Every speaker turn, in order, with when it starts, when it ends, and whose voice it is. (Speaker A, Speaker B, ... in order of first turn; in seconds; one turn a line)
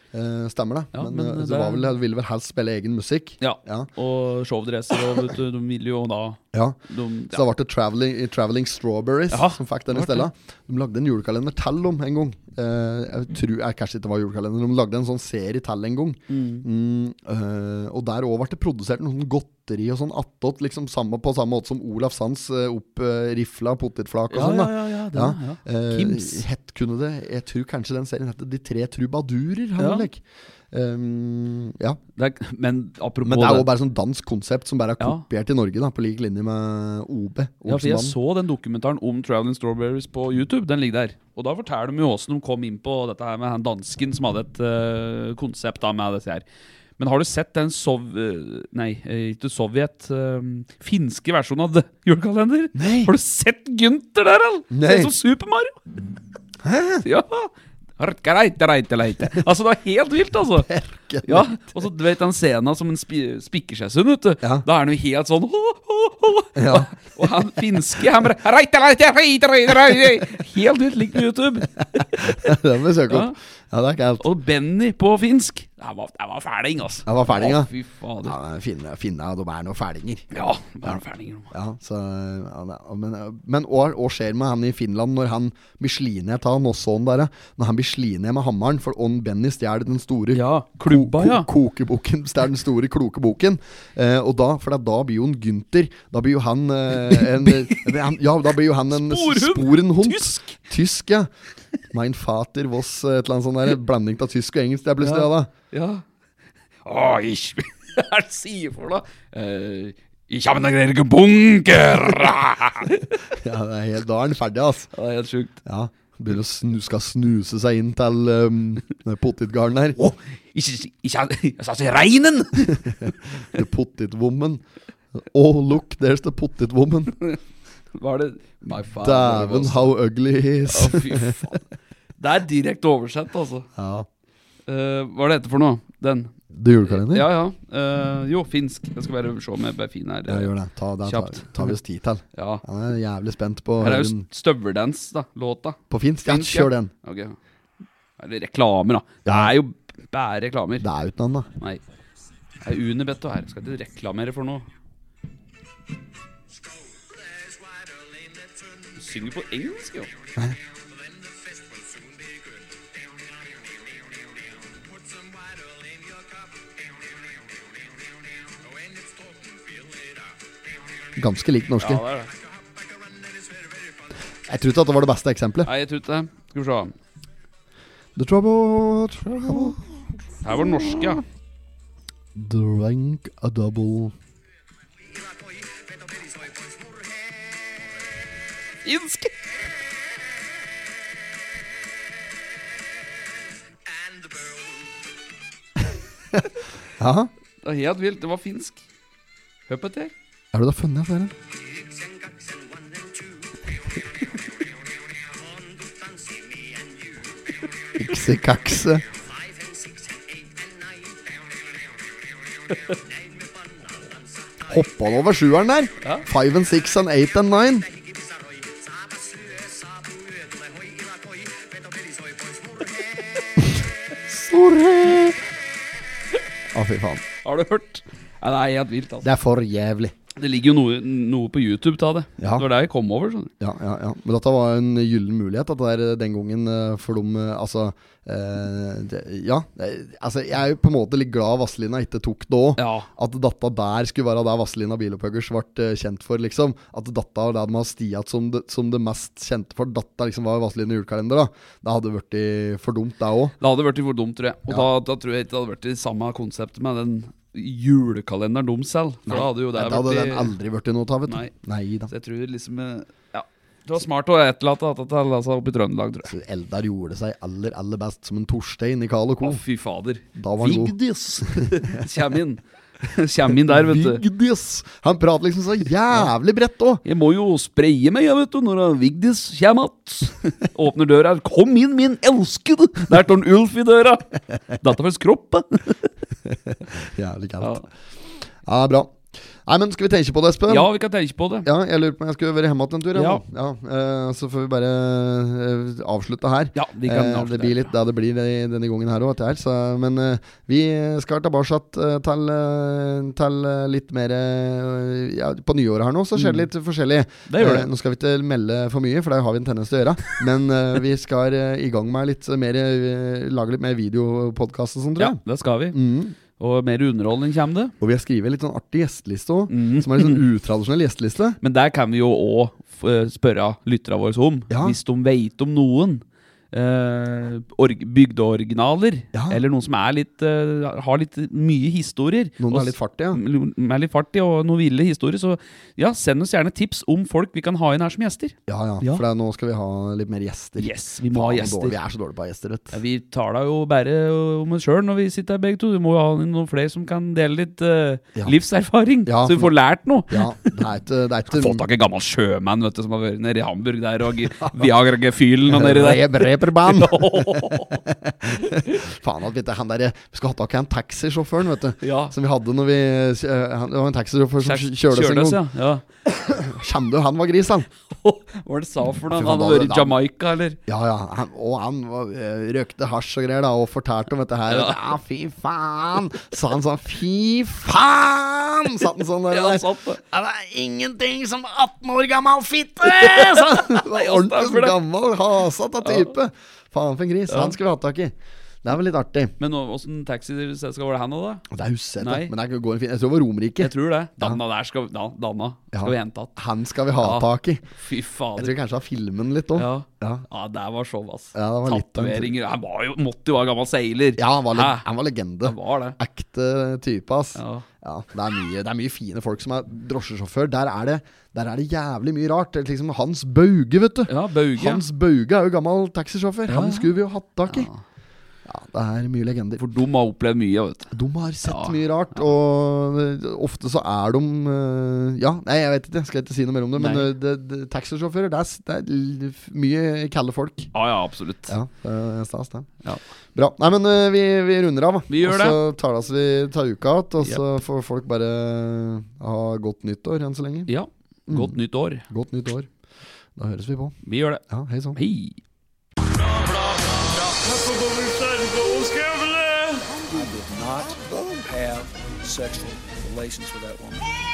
Speaker A: 0.1-3.9
Speaker B: 0.9-1.9
Speaker B: 3.4-7.4
Speaker A: 7.3-32.0
Speaker B: 9.3-10.3
Speaker B: 16.3-16.6
Speaker B: 24.3-26.4
Speaker B: 29.8-30.1
Speaker B: 32.1-33.7
Speaker A: 33.2-38.1
Speaker B: 35.0-35.2
Speaker B: 37.6-46.4
Speaker B: 47.0-55.8
Speaker A: 52.7-53.1
Speaker A: 54.7-55.1
Speaker A: 56.6-57.0
Speaker B: 57.0-60.7
Speaker A: 60.6-61.8
Speaker B: 61.2-72.5
Speaker A: 66.5-66.9
Speaker A: 72.0-74.2
Speaker B: 73.1-73.3
Speaker B: 74.2-78.3
Speaker A: 77.0-77.7
Speaker A: 78.2-80.3
Speaker B: 80.3-81.5
Speaker A: 81.5-101.3
Speaker B: 90.3-91.5
Speaker B: 97.1-97.9
Speaker B: 98.9-100.5
Speaker A: 101.9-105.5
Speaker B: 105.0-106.0
Speaker B: 106.8-113.3
Speaker A: 113.3-114.9
Speaker B: 114.9-115.6
Speaker A: 115.6-120.0
Speaker B: 120.0-123.1
Speaker A: 122.8-124.6
Speaker A: 125.1-127.1
Speaker B: 127.9-129.9
Speaker A: 129.0-131.5
Speaker B: 130.7-131.6
Speaker B: 132.2-133.7
Speaker A: 133.8-134.1
Speaker B: 134.7-136.3
Speaker A: 136.5-137.3
Speaker B: 136.8-140.5
Speaker A: 140.3-144.2
Speaker B: 141.0-141.8
Speaker B: 142.3-142.6
Speaker B: 143.8-147.4
Speaker A: 145.9-146.9
Speaker B: 148.2-150.9
Speaker A: 149.2-149.5
Speaker A: 150.8-151.5
Speaker B: 152.6-154.7
Speaker B: 158.9-160.1
Speaker A: 171.2-172.0
Speaker B: 171.8-172.3
Speaker A: 174.5-175.7
Speaker B: 175.6-176.9
Speaker A: 178.2-179.8
Speaker B: 179.3-179.8
Speaker B: 180.4-181.2
Speaker A: 180.8-181.1
Speaker A: 182.3-184.1
Speaker B: 188.8-189.3
Speaker A: 197.0-197.3
Speaker B: 197.6-198.8
Speaker B: 199.7-200.1
Speaker A: 200.5-201.3
Speaker A: 207.9-209.1
Speaker A: 214.6-217.9
Speaker A: 223.6-225.4
Speaker A: 226.7-227.2
Speaker B: 227.4-229.3
Speaker A: 229.2-230.1
Speaker B: 230.3-233.5
Speaker A: 232.4-232.7
Speaker A: 233.6-253.5
Speaker B: 242.8-243.1
Speaker B: 253.6-260.5
Speaker A: 259.3-262.1
Speaker B: 261.3-261.5
Speaker B: 262.1-266.3
Speaker A: 266.2-269.6
Speaker B: 269.4-274.2
Speaker A: 270.3-272.1
Speaker A: 273.6-277.0
Speaker B: 277.0-286.1
Speaker A: 286.7-287.8
Speaker B: 287.6-287.8
Speaker A: 288.6-290.9
Speaker B: 290.7-291.7
Speaker A: 291.6-315.4
Speaker B: 293.1-293.4
Speaker B: 296.7-297.9
Speaker B: 306.4-306.7
Speaker B: 307.5-307.9
Speaker B: 315.2-315.9
Speaker A: 315.9-316.4
Speaker B: 316.5-317.9
Speaker A: 318.0-321.6
Speaker B: 319.7-320.4
Speaker B: 321.6-339.2
Speaker A: 324.7-325.0
Speaker A: 329.3-329.6
Speaker A: 332.6-333.4
Speaker A: 338.7-343.0
Speaker B: 340.8-342.0
Speaker B: 342.9-350.7
Speaker A: 349.2-349.7
Speaker A: 350.3-351.8
Speaker B: 351.5-359.1
Speaker A: 354.6-354.9
Speaker A: 355.7-365.6
Speaker B: 362.0-362.3
Speaker B: 364.6-366.1
Speaker A: 366.4-367.9
Speaker B: 368.1-370.8
Speaker A: 369.3-370.1
Speaker A: 370.9-389.5
Speaker B: 374.7-375.0
Speaker B: 379.5-380.2
Speaker B: 383.0-385.0
Speaker B: 386.0-386.3
Speaker B: 387.5-387.8
Speaker B: 389.6-391.6
Speaker A: 391.7-394.6
Speaker B: 392.2-392.5
Speaker B: 393.8-396.6
Speaker A: 395.9-397.9
Speaker B: 397.2-398.7
Speaker A: 398.6-400.4
Speaker B: 399.7-405.1
Speaker A: 401.5-402.5
Speaker A: 404.4-417.9
Speaker B: 405.6-406.2
Speaker B: 407.6-407.9
Speaker B: 414.3-415.0
Speaker B: 416.7-417.1
Speaker B: 417.7-418.0
Speaker A: 418.6-419.8
Speaker B: 419.8-421.1
Speaker A: 421.1-430.9
Speaker B: 421.6-422.4
Speaker B: 426.9-427.3
Speaker B: 430.9-431.7
Speaker A: 431.7-432.9
Speaker A: 433.5-440.9
Speaker B: 435.3-435.8
Speaker B: 440.9-442.2
Speaker A: 441.5-442.9
Speaker A: 443.6-444.1
Speaker B: 444.2-444.6
Speaker A: 444.7-445.2
Speaker B: 445.1-445.6
Speaker C: 446.2-454.3
Speaker A: 450.1-450.5
Speaker A: 451.0-451.7